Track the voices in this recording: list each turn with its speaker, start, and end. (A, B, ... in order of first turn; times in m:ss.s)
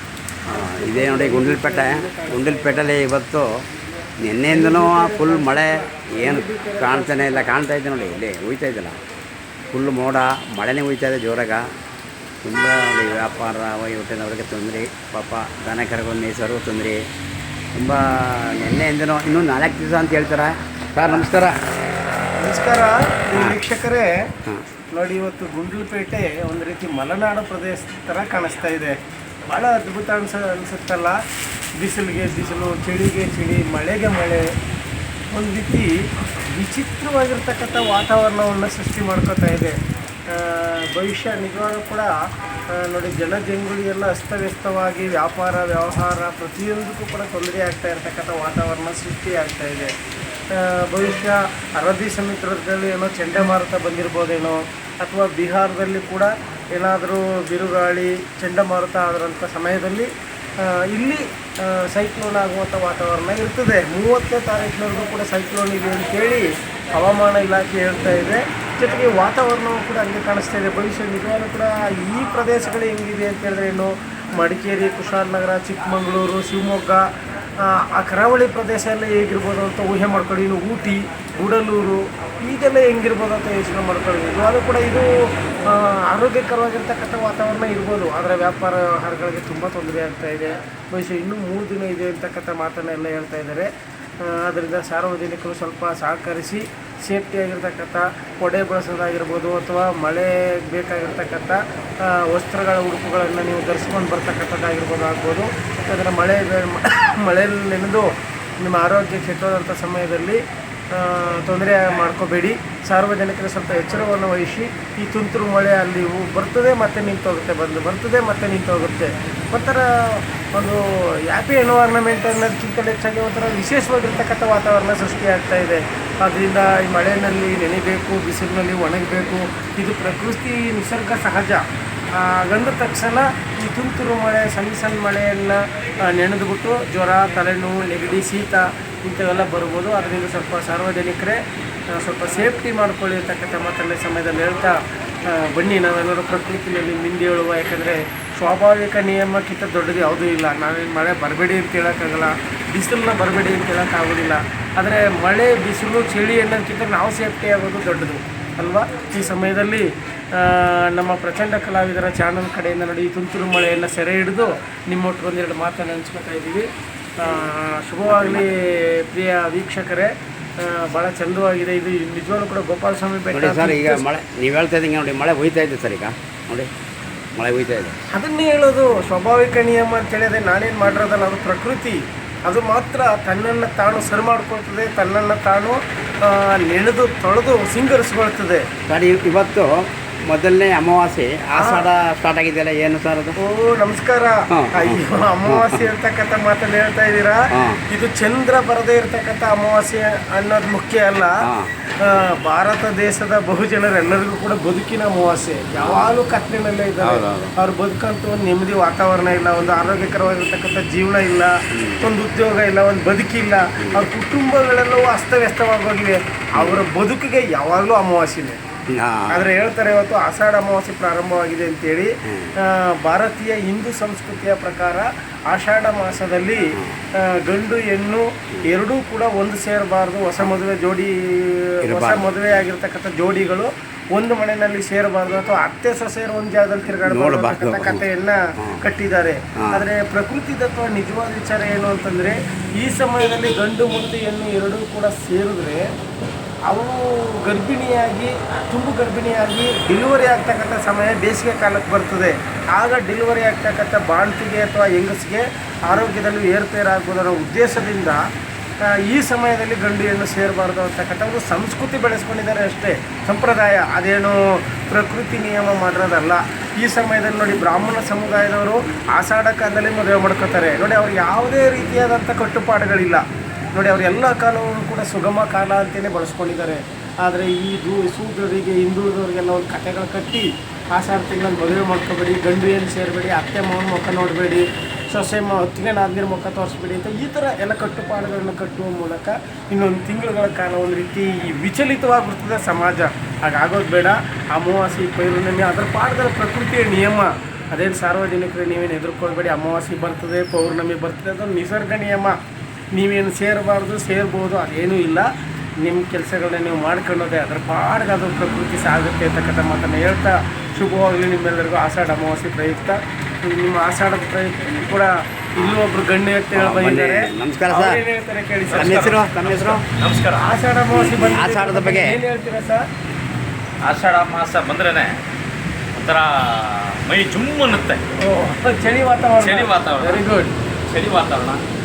0:00.5-0:03.0 A
0:00.5-0:03.5 B
0:04.2-0:09.0 B
0:04.5-0:07.6 A
0:09.7-0:11.6 B
0:12.4-0:17.0 B
0:17.8-0:21.5 B
0:22.4-0:24.1 A
0:24.9-0:29.0 A
0:29.5-0:31.2 A
0:31.8-0:34.5 A
0:35.3-0:35.9 A
0:36.5-0:39.8 A
0:40.3-0:42.1 A
0:42.7-0:49.9 A
0:50.5-1:00.1 A
1:00.6-1:17.1 A
1:17.6-1:25.1 A
1:25.7-1:33.7 A
1:34.2-1:50.4 A
1:50.9-2:11.6 A
2:12.2-2:21.4 A
2:21.9-2:24.8 A
2:25.3-2:46.7 A
2:47.2-2:54.0 A
2:48.1-2:48.5 B
2:53.3-2:56.7 B
2:57.4-2:58.0 B
2:58.1-3:08.6 A
3:08.9-3:09.7 B
3:10.3-3:13.4 B
3:11.6-3:11.9 A
3:13.4-3:21.3 A
3:14.5-3:15.8 B
3:17.5-3:17.8 B
3:22.0-3:38.6 A
3:25.8-3:26.2 B
3:27.0-3:27.5 B
3:31.7-3:32.1 B
3:33.8-3:34.1 B
3:38.9-3:39.5 B
3:39.3-4:05.8 A
3:51.8-3:52.3 B
3:57.0-3:58.0 B
4:06.7-4:18.2 A
4:18.9-4:33.2 A
4:33.8-5:02.4 A
5:03.0-5:05.3 A
5:05.8-5:19.8 A
5:16.5-5:18.0 B
5:18.7-5:20.4 C
5:18.7-5:19.8 B
5:20.4-5:22.8 A
5:20.9-5:22.2 B
5:23.8-5:25.1 C
5:26.0-5:28.0 C
5:28.2-5:30.5 A
5:29.4-5:30.2 C
5:30.9-5:31.6 C